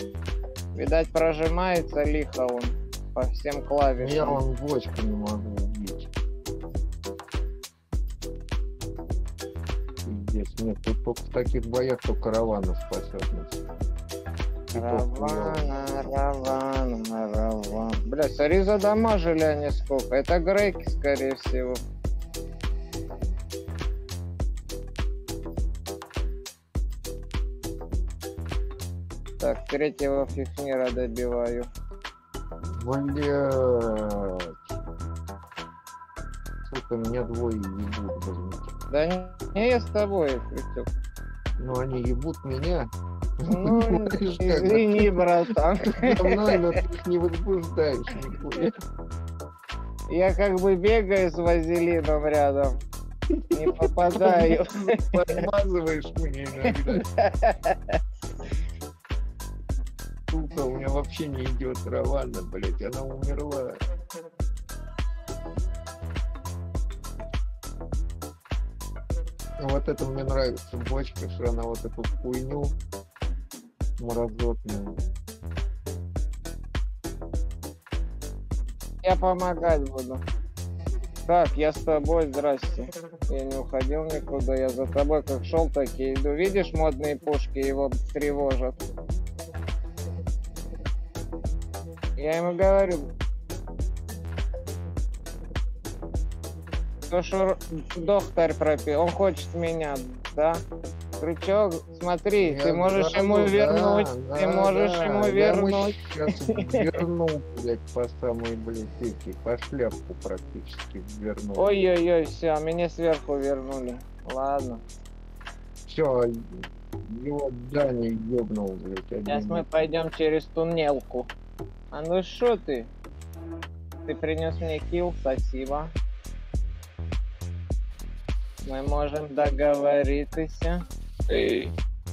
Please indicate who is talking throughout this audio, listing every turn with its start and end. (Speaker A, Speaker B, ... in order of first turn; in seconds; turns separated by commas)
Speaker A: 0.8-4.4, Speaker B: 4.0-6.1, Speaker B: 10.0-13.6, Speaker B: 14.7-15.7, Speaker A: 14.7-21.8, Speaker A: 29.4-31.7, Speaker B: 32.7-34.6, Speaker B: 36.7-38.7, Speaker A: 38.9-40.9, Speaker B: 41.6-45.2, Speaker A: 43.5-46.7, Speaker B: 45.9-48.8, Speaker A: 50.1-52.8, Speaker B: 53.4-57.1, Speaker A: 53.5-55.4, Speaker A: 56.7-58.0, Speaker B: 60.3-63.8, Speaker B: 69.6-72.8, Speaker B: 74.0-75.0, Speaker A: 79.0-80.2, Speaker A: 81.3-88.9, Speaker A: 92.2-93.1, Speaker A: 97.1-100.6, Speaker A: 101.2-106.8, Speaker B: 102.4-111.7, Speaker A: 111.6-114.8, Speaker B: 115.9-119.7, Speaker A: 119.3-121.3, Speaker A: 121.9-122.9, Speaker A: 124.1-125.9, Speaker A: 128.6-131.7